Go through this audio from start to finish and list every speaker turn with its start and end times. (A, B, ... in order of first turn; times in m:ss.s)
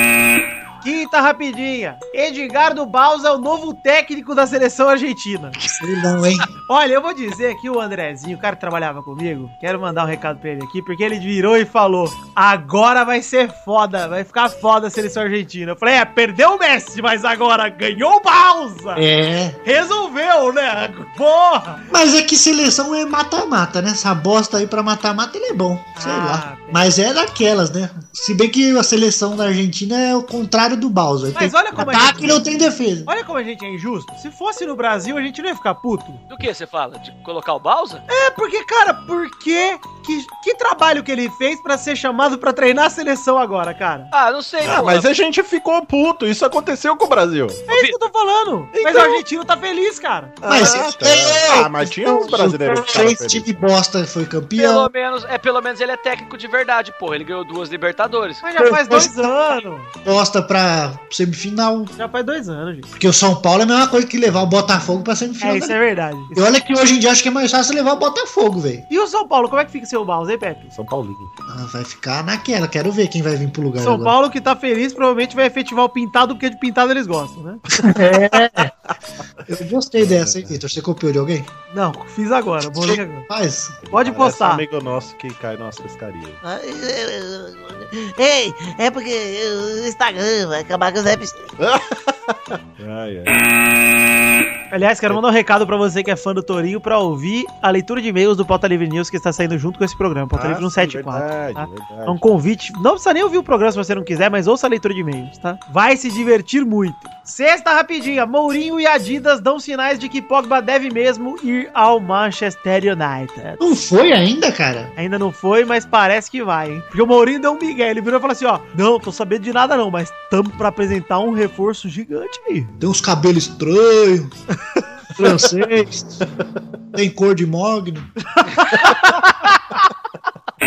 0:00.8-0:05.6 A
0:05.6-0:06.5 B
0:06.6-0:19.0 A
0:18.9-0:19.6 B
0:19.6-0:21.8 A
0:21.9-0:33.1 B
0:26.0-0:26.9 A
0:31.3-0:32.4 A
0:33.1-0:36.2 A
0:36.3-0:38.0 C
0:38.1-0:44.1 A
0:44.1-0:45.1 C
0:44.6-0:47.6 D
0:47.7-0:50.7 A
0:47.7-0:48.0 C
0:48.7-0:49.2 D
0:50.4-0:53.6 D
0:50.4-0:54.9 B
0:54.6-0:58.4 C
0:58.4-0:59.9 A
0:58.6-0:59.3 B
1:00.0-1:01.9 B
1:01.9-1:02.9 A
1:02.9-1:05.8 B
1:05.4-1:06.4 A
1:06.3-1:08.8 B
1:08.9-1:10.7 A
1:10.7-1:11.3 D
1:11.5-1:14.1 B
1:13.8-1:17.6 A
1:17.8-1:18.7 B
1:19.5-1:21.5 B
1:20.0-1:20.6 D
1:21.7-1:23.2 A
1:22.6-1:23.8 B
1:23.8-1:26.4 D
1:23.9-1:24.6 A
1:26.4-1:31.5 E
1:31.6-1:33.4 D
1:34.7-1:53.6 A
1:40.3-1:42.2 D
1:53.6-1:54.9 B
1:55.0-2:02.7 A
2:02.8-2:04.3 B
2:05.2-2:06.2 B
2:06.9-2:08.1 B